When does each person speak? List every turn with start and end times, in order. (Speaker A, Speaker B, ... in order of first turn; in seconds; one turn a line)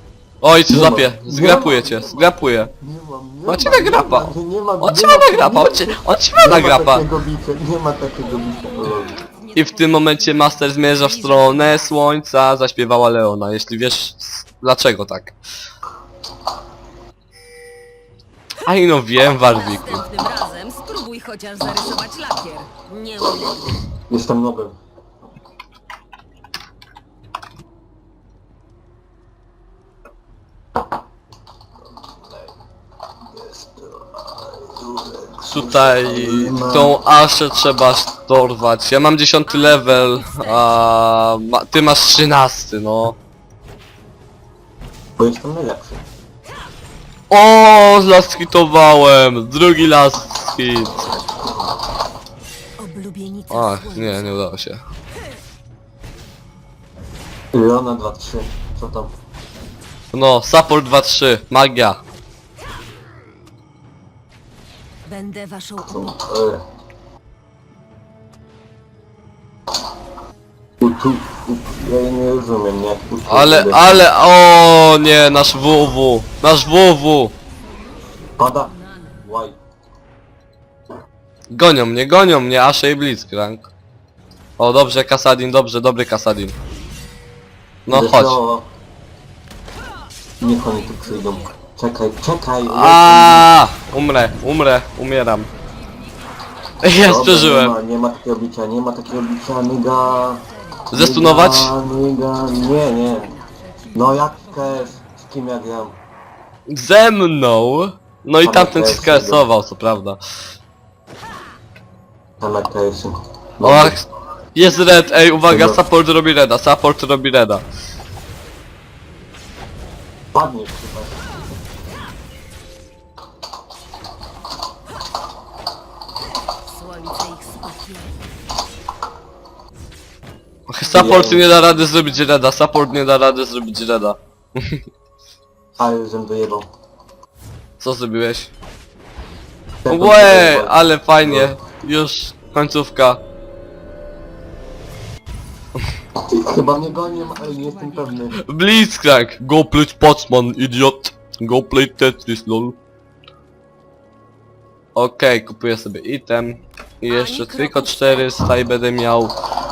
Speaker A: 0.4-2.7
Speaker B: 0.7-9.2
Speaker C: 1.9-2.3
Speaker A: 3.5-4.3
Speaker A: 4.8-7.0
Speaker C: 8.6-12.1
Speaker A: 9.6-15.4
Speaker A: 18.7-20.0
Speaker C: 19.5-23.8
Speaker B: 24.1-24.8
Speaker B: 33.3-37.0
Speaker A: 35.5-43.2
Speaker C: 39.5-41.0
Speaker B: 45.2-46.1
Speaker A: 47.3-51.1
Speaker B: 51.1-51.7
Speaker C: 52.8-54.4
Speaker A: 53.5-54.8
Speaker B: 57.5-59.1
Speaker A: 60.1-62.0
Speaker C: 65.1-66.1
Speaker B: 65.9-66.6
Speaker B: 70.8-74.1
Speaker A: 73.3-77.3
Speaker B: 78.4-79.6
Speaker A: 81.5-83.7
Speaker A: 84.6-86.5
Speaker A: 87.9-88.4
Speaker B: 87.9-88.7
Speaker B: 90.4-93.5
Speaker C: 90.4-91.5
Speaker A: 92.7-95.5
Speaker A: 96.8-97.7
Speaker B: 97.0-103.3
Speaker C: 100.2-100.9
Speaker A: 100.9-101.7
Speaker C: 102.4-104.0
Speaker B: 103.9-106.0
Speaker A: 106.7-110.2
Speaker B: 108.4-109.5
Speaker B: 112.4-114.0
Speaker A: 113.6-114.0
Speaker A: 114.5-117.6
Speaker C: 114.9-115.4
Speaker B: 115.5-115.8
Speaker B: 120.3-121.2
Speaker C: 126.7-128.2
Speaker A: 130.7-134.8
Speaker B: 130.8-131.6
Speaker B: 135.8-136.7
Speaker A: 137.8-138.5
Speaker B: 139.8-141.5
Speaker A: 139.9-143.2
Speaker B: 146.2-148.4
Speaker C: 147.1-147.9
Speaker A: 148.4-152.8
Speaker A: 155.0-159.3
Speaker C: 157.1-158.4